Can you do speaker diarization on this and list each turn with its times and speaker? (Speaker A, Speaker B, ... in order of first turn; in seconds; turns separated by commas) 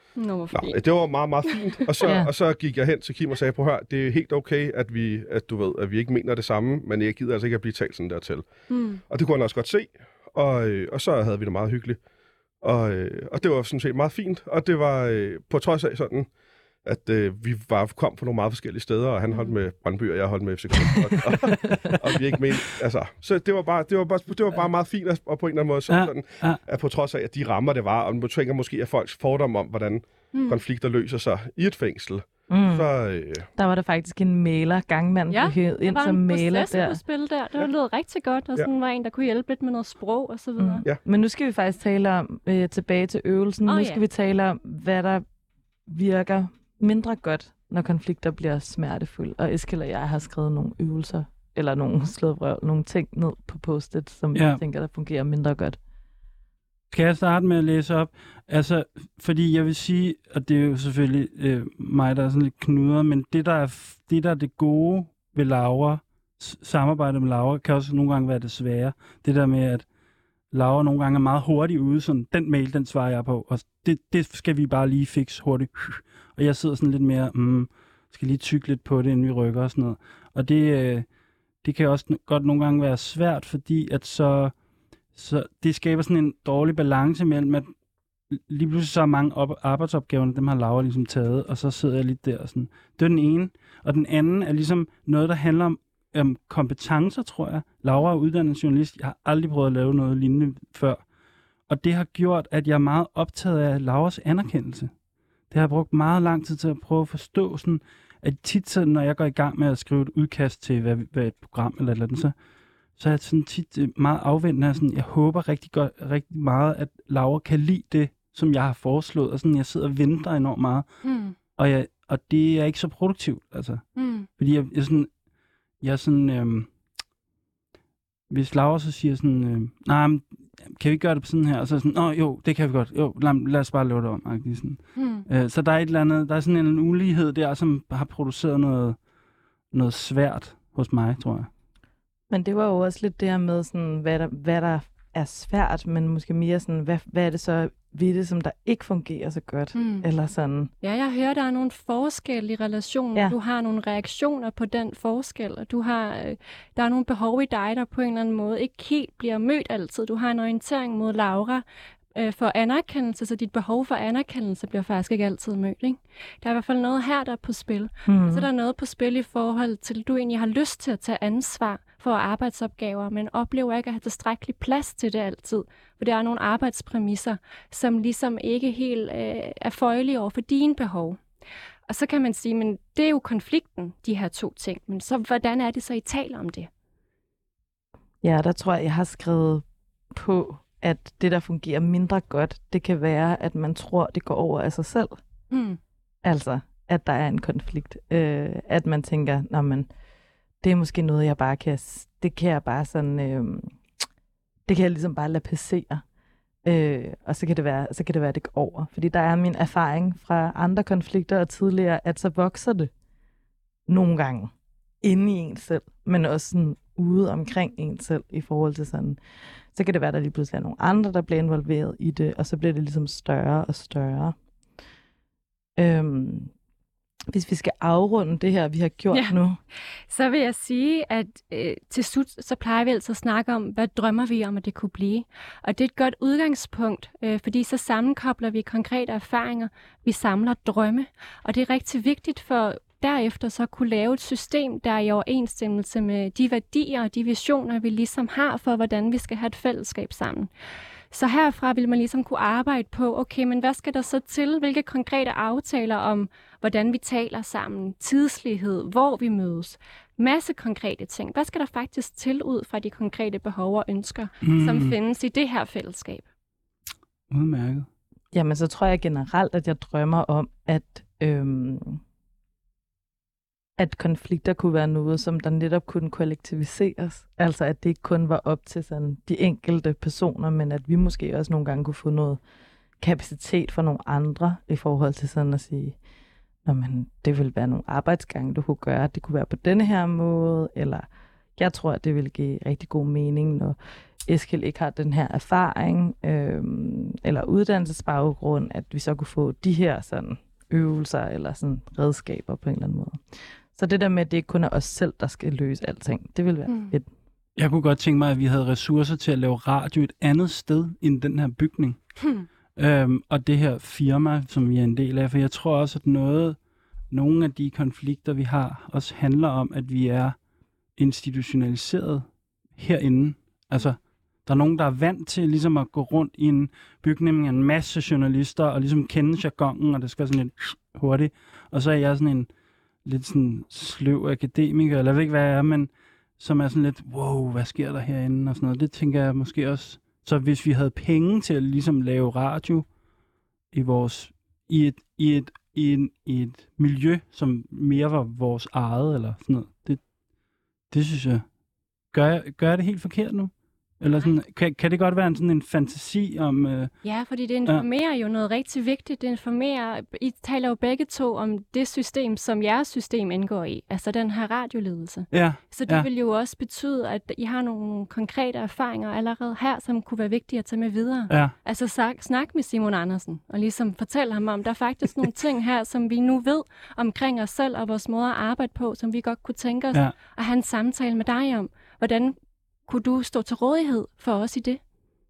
Speaker A: 0.1-0.8, Speaker B: 0.5-8.4, Speaker A: 8.7-9.0, Speaker B: 9.1-12.0, Speaker B: 12.6-16.3, Speaker B: 16.8-33.5, Speaker C: 21.6-21.9, Speaker D: 25.9-26.6, Speaker A: 30.3-30.6, Speaker C: 32.5-32.9, Speaker C: 33.5-37.0, Speaker A: 35.3-40.8, Speaker C: 40.6-45.2, Speaker A: 43.6-44.0, Speaker C: 45.9-55.8, Speaker D: 54.3-54.6, Speaker D: 56.9-69.8, Speaker D: 70.5-81.0, Speaker D: 81.6-84.5, Speaker D: 85.1-87.7, Speaker D: 88.3-101.0, Speaker D: 101.7-104.9, Speaker D: 105.5-112.3, Speaker D: 113.0-120.8, Speaker A: 121.0-121.3, Speaker D: 121.5-123.8, Speaker A: 124.0-124.3, Speaker D: 124.4-125.1, Speaker D: 125.8-126.7, Speaker D: 128.3-138.9, Speaker A: 134.9-135.2, Speaker D: 139.7-141.5, Speaker C: 142.3-150.7, Speaker A: 149.7-150.1, Speaker A: 150.8-181.2, Speaker C: 168.1-168.5, Speaker A: 181.9-186.7, Speaker C: 188.2-195.2, Speaker A: 195.5-195.8, Speaker C: 196.2-199.9, Speaker C: 200.6-203.8, Speaker C: 204.7-206.0, Speaker C: 206.6-212.9, Speaker C: 213.9-219.2, Speaker C: 219.7-224.3, Speaker C: 225.8-226.5, Speaker C: 227.3-229.6, Speaker A: 229.1-229.3, Speaker A: 230.1-250.5, Speaker A: 251.1-266.2, Speaker D: 264.4-264.9, Speaker D: 267.3-267.9, Speaker C: 268.3-272.0, Speaker C: 273.8-282.4, Speaker C: 283.0-286.0, Speaker C: 286.6-291.1, Speaker C: 291.6-303.2, Speaker C: 303.7-307.1, Speaker A: 306.7-306.9, Speaker D: 307.6-312.0, Speaker D: 312.8-316.6, Speaker D: 317.1-320.4, Speaker D: 321.0-322.2, Speaker D: 322.8-332.5, Speaker D: 333.0-342.9, Speaker D: 343.7-350.0, Speaker D: 350.9-351.4, Speaker D: 352.1-356.9, Speaker A: 357.0-382.4, Speaker D: 365.3-366.1, Speaker A: 382.9-384.8